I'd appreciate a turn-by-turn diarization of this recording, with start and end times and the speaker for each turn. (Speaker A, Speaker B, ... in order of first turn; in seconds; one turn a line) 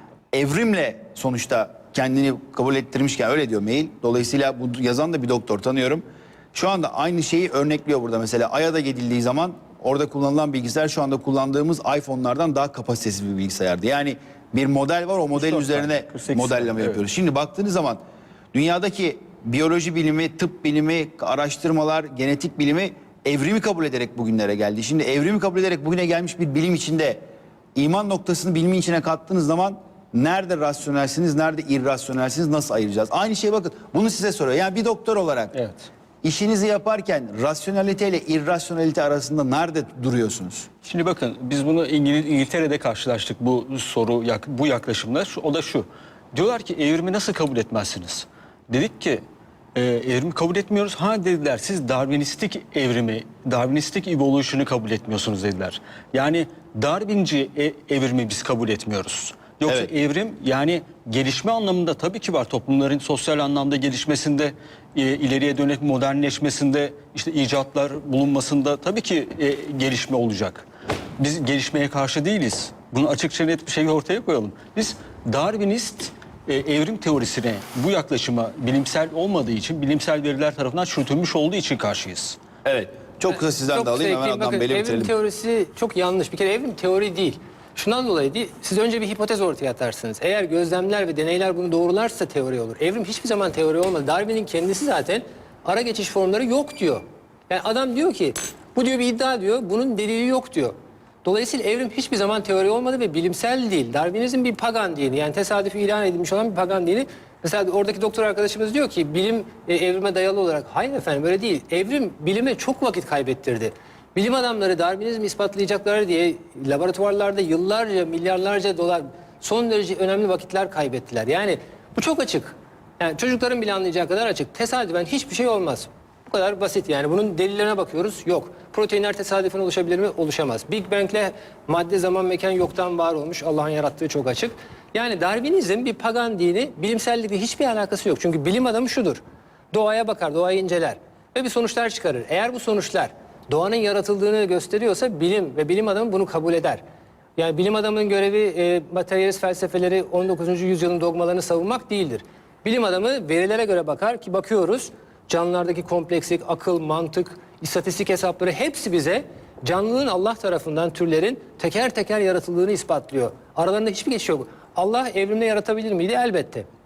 Speaker A: 0.3-18.0
Speaker B: 15.3-17.0
Speaker A: 18.5-27.2
Speaker A: 27.8-35.5
Speaker B: 35.5-35.9
Speaker A: 36.2-40.7
Speaker B: 40.8-49.2
Speaker B: 49.8-70.7
Speaker B: 71.2-82.4
Speaker A: 82.6-85.1
Speaker C: 83.7-139.2
Speaker C: 139.7-146.8
Speaker C: 147.4-166.7